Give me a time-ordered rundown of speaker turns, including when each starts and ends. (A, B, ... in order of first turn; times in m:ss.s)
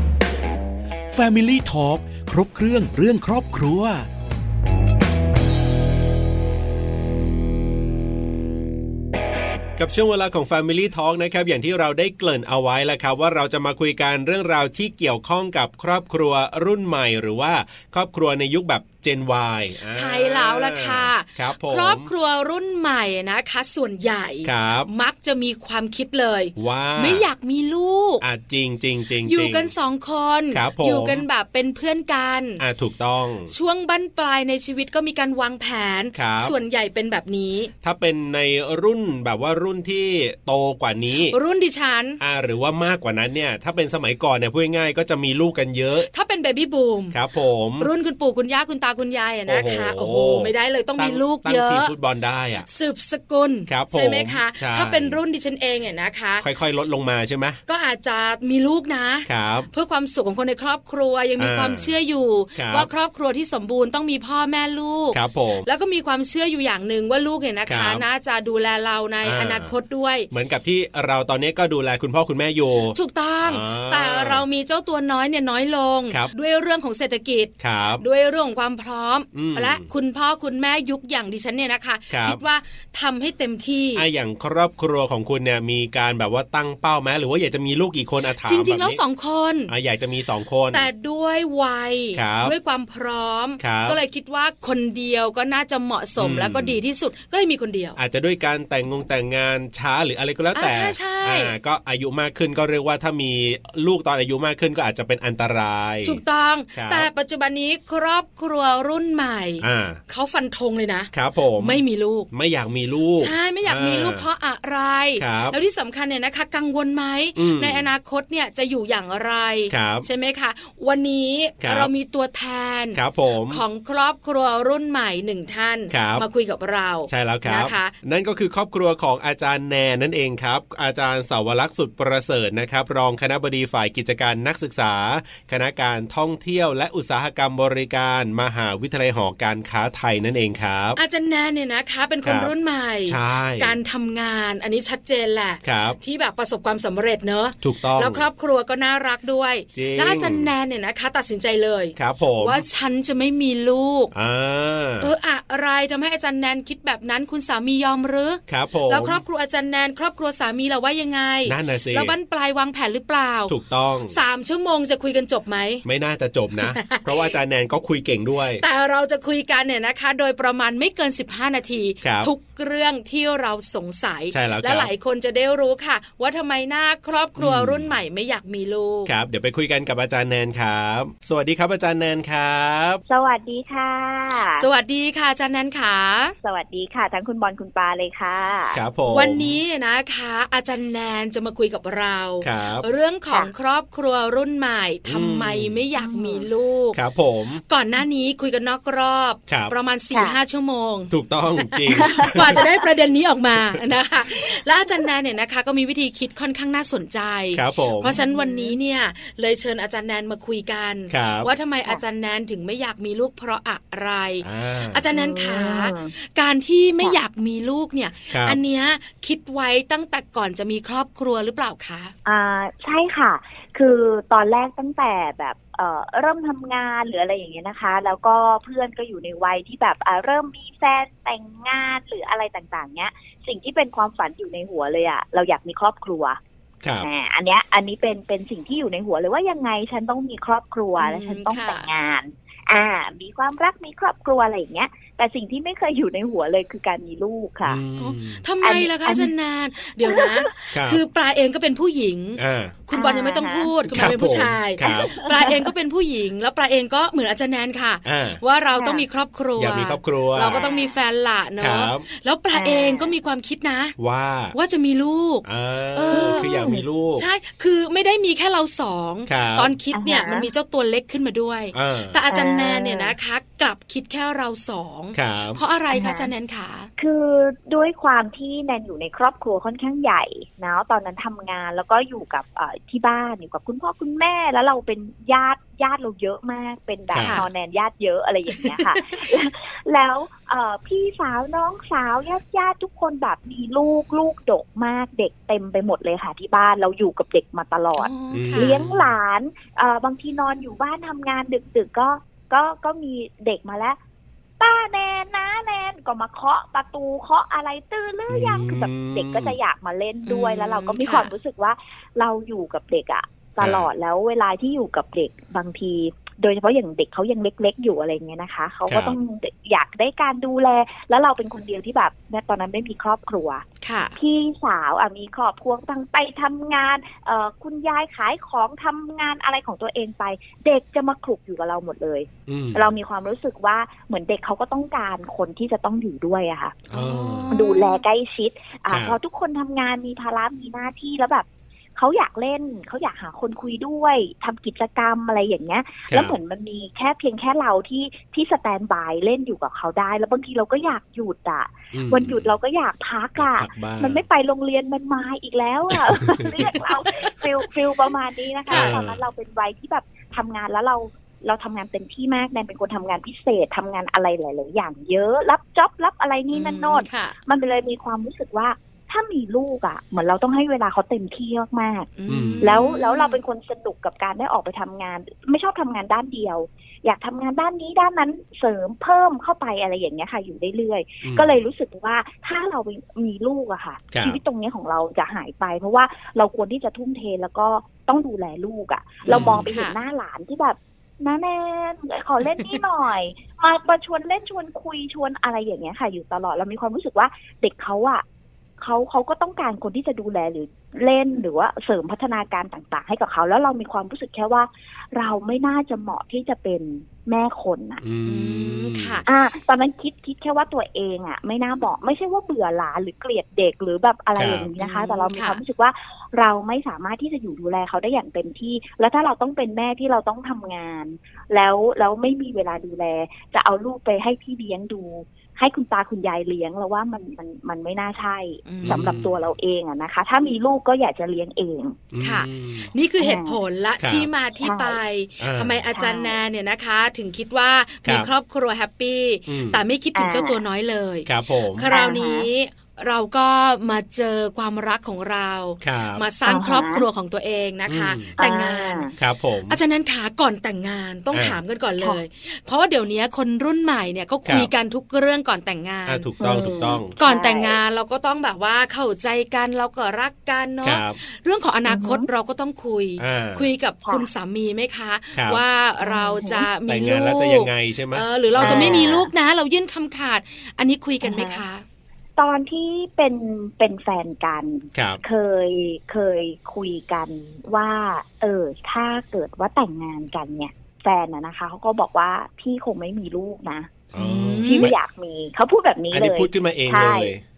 0:01.1-0:04.1 A
0:09.8-0:22.1 B
0:19.9-0:28.2 C
0:24.4-0:24.9 B
0:26.6-0:27.2 B
0:28.2-0:29.7 B
0:29.3-0:32.6 C
0:30.5-0:31.2 B
0:32.6-0:33.5 B
0:33.5-0:37.7 C
0:36.2-0:36.6 B
0:37.8-0:41.4 B
0:41.3-0:42.2 C
0:42.2-0:46.1 B
0:46.1-0:47.2 C
0:47.1-0:47.9 B
0:47.8-0:51.9 C
0:49.5-0:52.7 B
0:52.7-0:56.5 C
0:53.7-0:55.2 B
0:56.4-0:57.6 B
0:57.7-1:10.3 C
0:59.3-0:59.7 B
1:01.4-1:01.9 B
1:02.6-1:02.9 B
1:05.1-1:05.7 B
1:07.7-1:08.0 B
1:09.2-1:09.7 B
1:10.3-1:14.4 B
1:12.9-1:24.0 C
1:17.6-1:18.0 B
1:19.3-1:19.9 B
1:22.1-1:22.4 B
1:24.0-1:29.0 B
1:28.4-1:29.7 C
1:29.7-1:30.9 B
1:30.7-1:38.0 C
1:32.2-1:32.6 B
1:33.6-1:34.0 B
1:36.2-1:36.8 B
1:38.0-1:46.2 B
1:40.5-1:41.5 C
1:46.0-1:52.3 C
1:46.7-1:47.1 B
1:49.6-1:50.0 B
1:51.1-1:54.3 B
1:53.2-2:07.9 C
1:55.2-1:55.6 B
1:57.4-1:57.9 B
1:59.7-2:00.1 B
2:01.6-2:01.9 B
2:02.9-2:03.6 B
2:05.9-2:06.3 B
2:07.1-2:21.0 B
2:21.0-2:34.1 C
2:22.2-2:22.5 B
2:23.0-2:23.8 B
2:25.6-2:26.0 B
2:27.6-2:28.3 B
2:29.8-2:30.5 B
2:32.0-2:32.6 B
2:34.1-2:35.1 B
2:35.0-2:43.6 C
2:38.5-2:39.2 B
2:41.4-2:42.1 B
2:43.5-2:44.2 B
2:44.1-2:45.8 C
2:45.8-2:48.6 B
2:46.6-2:47.4 C
2:48.6-2:59.1 C
2:52.0-2:52.3 B
2:54.3-2:54.9 B
2:57.4-2:57.9 B
2:59.1-3:03.0 B
3:03.1-3:04.7 D
3:04.5-3:06.4 C
3:06.4-3:08.8 D
3:08.7-3:09.6 B
3:09.1-3:17.0 C
3:12.4-3:12.9 B
3:15.1-3:15.8 B
3:16.0-3:16.5 D
3:16.9-3:17.6 B
3:17.7-3:42.1 C
3:19.5-3:19.7 B
3:21.1-3:22.7 B
3:22.1-3:22.8 D
3:23.5-3:23.9 B
3:27.5-3:28.2 B
3:28.1-3:28.8 D
3:31.1-3:31.5 B
3:34.4-3:35.0 B
3:35.1-3:36.1 D
3:38.3-3:38.6 B
3:42.2-3:56.4 D
3:57.0-4:07.8 D
4:01.0-4:01.9 C
4:07.7-4:08.4 B
4:08.0-4:24.0 C
4:08.6-4:09.3 D
4:10.0-4:10.5 D
4:10.7-4:11.0 B
4:12.4-4:12.8 B
4:12.9-4:13.7 D
4:13.9-4:15.2 B
4:14.9-4:15.7 D
4:18.0-4:18.4 B
4:18.8-4:19.0 D
4:19.6-4:20.6 B
4:20.5-4:21.0 D
4:21.6-4:22.0 B
4:22.5-4:23.1 D
4:24.0-4:24.6 B
4:24.5-4:36.9 C
4:25.4-4:27.3 B
4:26.1-4:26.8 D
4:29.3-4:29.8 B
4:29.9-4:30.5 D
4:31.7-4:32.2 B
4:32.3-4:33.2 D
4:35.1-4:35.6 B
4:35.9-4:36.3 D
4:37.0-5:04.0 D
4:47.1-4:47.4 B
4:47.2-4:47.5 C
4:48.6-4:48.9 C
4:58.0-4:58.8 C
4:58.3-4:59.2 B
5:04.6-5:23.6 D
5:08.3-5:09.6 B
5:10.3-5:11.3 C
5:13.6-5:13.9 B
5:18.9-5:19.2 B
5:23.8-5:24.2 C
5:24.2-5:36.8 D
5:32.5-5:32.9 B
5:36.9-5:37.6 B
5:36.9-5:38.0 C
5:37.5-6:12.1 D
5:38.9-5:39.2 B
5:46.1-5:46.4 B
5:51.9-5:52.5 B
5:53.4-5:54.2 B
5:55.9-5:56.8 B
5:58.7-5:58.9 C
5:58.7-5:59.2 B
6:06.5-6:07.4 C
6:12.2-6:13.4 C
6:12.3-6:12.7 B
6:12.6-6:38.2 D
6:21.2-6:21.6 B
6:24.1-6:24.4 B
6:29.2-6:30.0 C
6:29.3-6:29.7 B
6:38.8-6:48.0 D
6:48.0-6:49.3 B
6:48.3-6:49.2 C
6:49.3-7:12.0 D
6:54.4-6:54.7 B
6:54.8-6:55.6 C
7:08.7-7:09.1 C
7:08.8-7:09.5 B
7:12.1-7:12.9 B
7:12.2-7:29.1 C
7:13.2-7:13.6 D
7:14.0-7:14.3 B
7:14.6-7:15.0 D
7:15.4-7:15.8 B
7:15.9-7:16.4 D
7:19.5-7:19.8 B
7:20.2-7:20.6 D
7:21.3-7:21.9 B
7:21.9-7:22.5 D
7:25.8-7:26.3 B
7:26.5-7:27.0 D
7:27.9-7:28.4 B
7:28.4-7:29.1 D
7:29.2-7:29.8 B
7:29.7-7:36.3 C
7:31.3-7:31.6 B
7:36.1-7:37.2 B
7:36.4-7:37.8 D
7:37.2-7:51.8 C
7:40.8-7:41.2 B
7:41.9-7:42.3 D
7:43.2-7:43.7 B
7:45.3-7:45.6 B
7:46.0-7:46.7 D
7:46.9-7:49.1 B
7:48.6-7:49.3 D
7:51.2-7:51.6 D
7:52.4-8:04.0 D
7:54.9-7:55.2 B
8:04.1-8:05.0 B
8:04.2-8:04.9 C
8:04.6-8:07.3 D
8:06.1-8:07.4 B